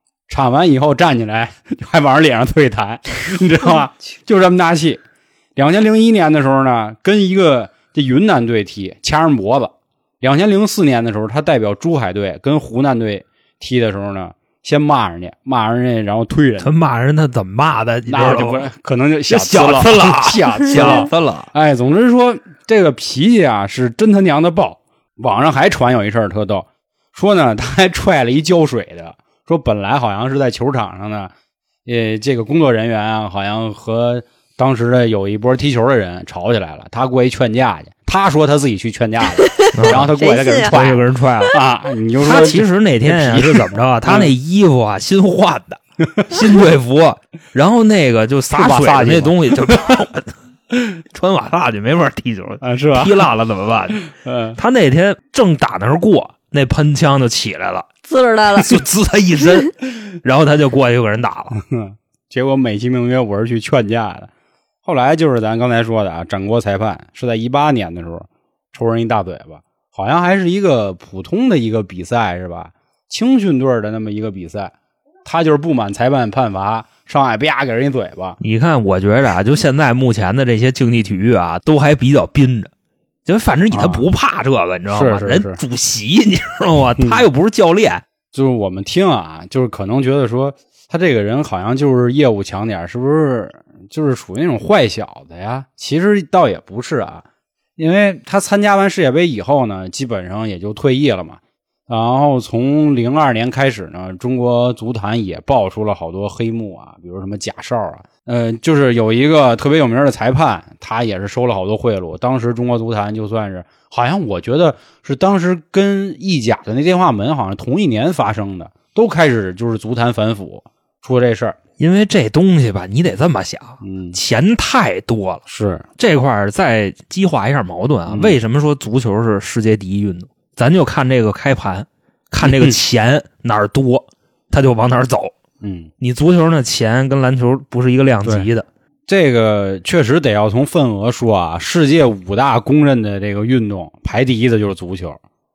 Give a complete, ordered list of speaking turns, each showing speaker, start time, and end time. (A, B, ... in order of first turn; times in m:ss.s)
0:00.3-0:05.0 A
0:05.6-0:16.7 A
0:16.6-0:18.7 B
0:18.1-0:31.3 A
0:19.3-0:21.5 B
0:20.8-0:21.0 C
0:31.8-0:44.3 A
0:39.3-0:40.7 C
0:39.7-0:40.1 B
0:40.7-0:41.6 B
0:42.2-0:50.3 B
0:46.0-0:46.3 A
0:48.5-0:49.9 A
0:51.1-0:54.0 B
0:52.6-0:53.2 A
0:54.0-0:54.6 A
0:54.6-0:57.9 B
0:58.0-0:58.8 C
0:58.6-1:01.6 B
1:01.6-1:04.3 A
1:04.8-1:14.7 A
1:15.2-1:18.4 A
1:18.4-1:22.7 B
1:23.2-1:28.0 B
1:23.7-1:24.0 A
1:24.9-1:25.6 A
1:28.3-1:37.2 A
1:37.8-2:01.6 A
2:01.8-2:05.4 B
2:03.8-2:04.2 A
2:05.5-2:05.8 A
2:06.0-2:15.3 B
2:08.1-2:08.4 A
2:12.4-2:12.8 A
2:15.6-2:15.9 A
2:16.0-2:18.6 B
2:19.1-2:25.2 A